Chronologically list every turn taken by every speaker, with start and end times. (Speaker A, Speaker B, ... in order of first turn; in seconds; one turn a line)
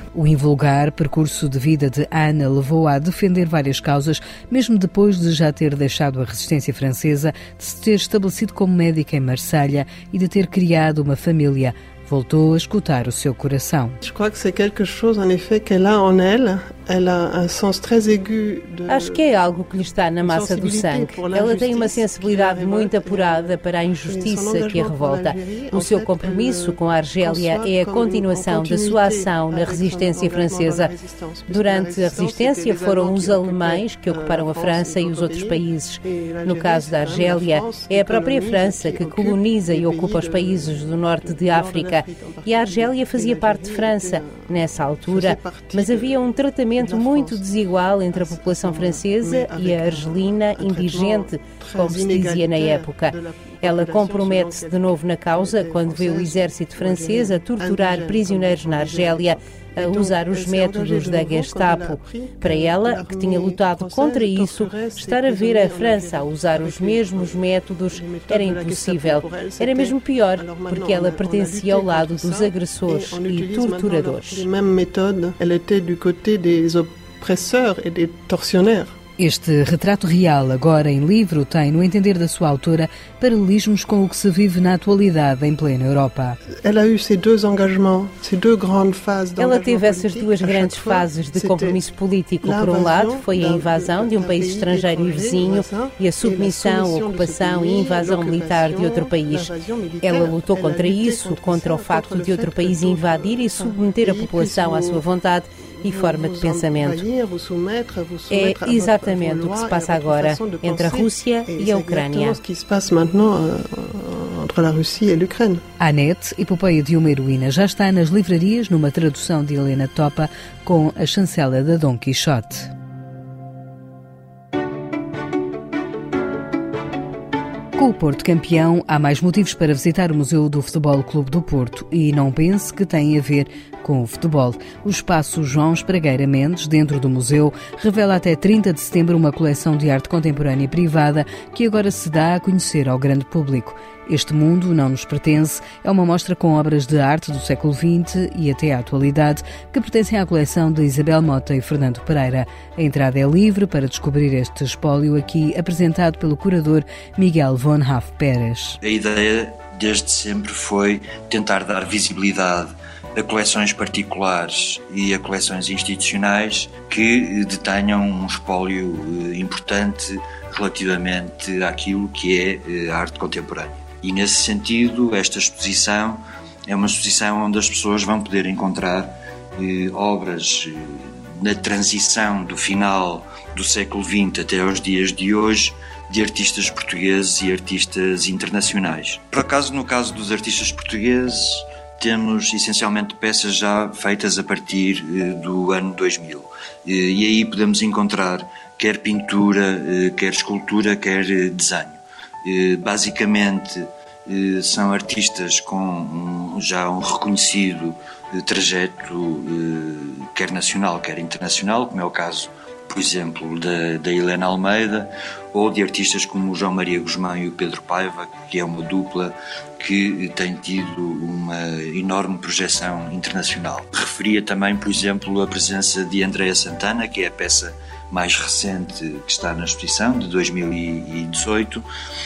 Speaker A: 0.1-14.0
Speaker B: 14.0-19.2
Speaker C: 18.9-30.9
Speaker B: 20.2-23.6
Speaker B: 24.1-44.5
Speaker C: 31.5-74.5
Speaker B: 45.1-46.2
Speaker B: 46.8-47.5
Speaker B: 48.1-78.9
Speaker A: 79.2-86.4
Speaker B: 86.6-91.9
Speaker C: 89.4-99.5
Speaker B: 92.4-105.0
Speaker C: 100.0-107.0
Speaker B: 105.8-115.6
Speaker C: 108.3-112.4
Speaker A: 115.8-122.7
Speaker A: 127.8-158.8
Speaker D: 158.8-231.9